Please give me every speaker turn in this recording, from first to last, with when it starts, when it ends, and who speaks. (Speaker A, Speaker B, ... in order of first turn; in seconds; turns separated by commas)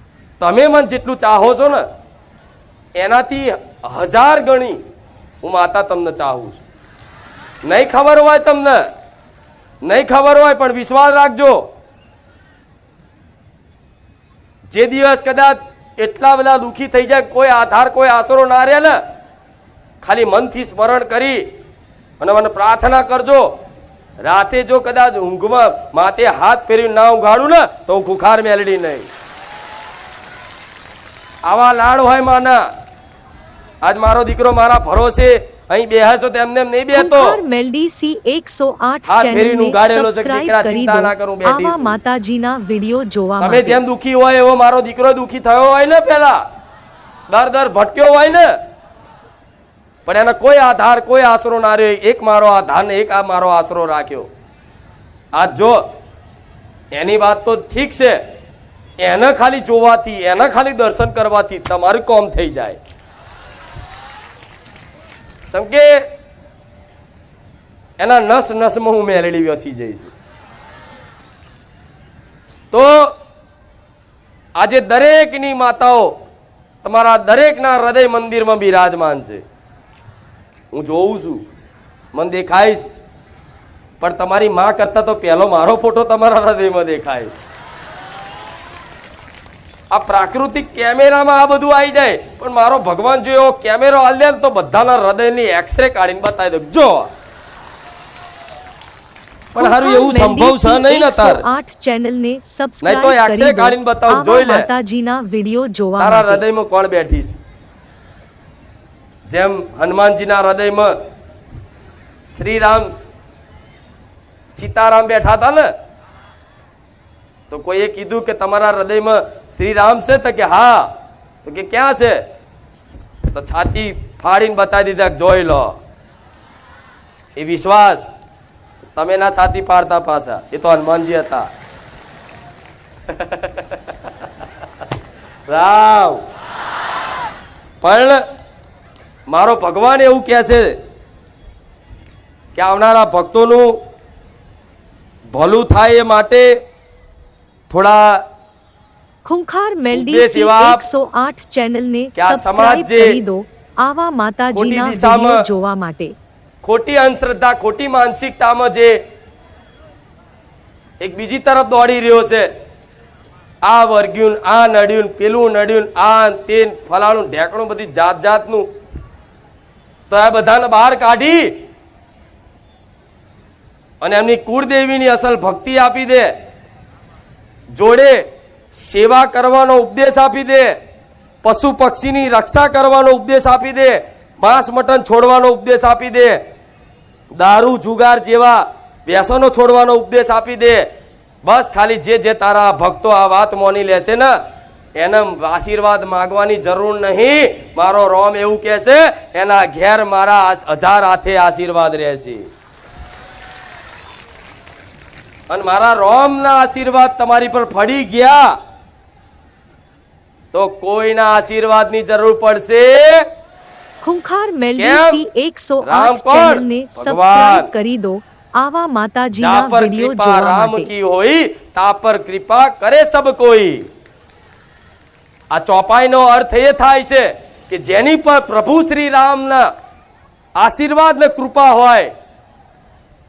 Speaker A: 0.4-1.8, Speaker A: 2.9-4.8, Speaker A: 5.4-6.6, Speaker A: 7.6-8.9, Speaker A: 9.8-11.7, Speaker A: 14.7-19.0, Speaker A: 20.0-21.4, Speaker A: 22.2-23.5, Speaker A: 24.2-29.1, Speaker A: 31.4-32.6, Speaker A: 33.8-37.4, Speaker B: 36.9-43.8, Speaker A: 39.1-42.0, Speaker A: 43.4-46.4, Speaker A: 47.3-48.6, Speaker A: 50.0-54.3, Speaker A: 55.3-55.8, Speaker A: 56.9-58.2, Speaker A: 59.0-62.8, Speaker A: 65.5-66.0, Speaker A: 68.0-70.1, Speaker A: 72.7-73.1, Speaker A: 74.6-76.2, Speaker A: 76.8-79.4, Speaker A: 80.7-81.5, Speaker A: 82.1-82.9, Speaker A: 84.0-87.3, Speaker A: 89.9-97.1, Speaker A: 99.5-101.4, Speaker B: 99.5-106.4, Speaker A: 102.8-104.7, Speaker A: 106.0-107.4, Speaker A: 109.3-110.9, Speaker A: 112.2-112.9, Speaker A: 114.5-115.7, Speaker A: 117.5-120.9, Speaker A: 121.4-122.2, Speaker A: 123.3-125.8, Speaker A: 127.3-128.1, Speaker A: 128.9-131.5, Speaker A: 133.1-133.6, Speaker A: 135.5-136.2, Speaker A: 137.8-138.2, Speaker A: 139.3-140.8, Speaker A: 142.5-143.8, Speaker A: 145.3-146.6, Speaker A: 147.7-148.2, Speaker B: 149.2-156.1, Speaker A: 149.9-150.8, Speaker A: 152.2-153.2, Speaker A: 154.5-155.4, Speaker A: 156.6-159.0, Speaker A: 161.0-162.5, Speaker A: 163.6-168.7, Speaker A: 170.1-171.6, Speaker A: 174.0-176.3, Speaker A: 177.7-180.7, Speaker A: 181.4-186.4, Speaker A: 187.4-190.9, Speaker A: 191.4-194.3, Speaker A: 195.0-202.5, Speaker A: 205.5-208.5, Speaker A: 210.5-213.2, Speaker B: 214.0-220.9, Speaker A: 214.8-215.2, Speaker A: 215.8-217.7, Speaker A: 219.4-223.9, Speaker A: 225.5-229.7, Speaker A: 230.6-232.1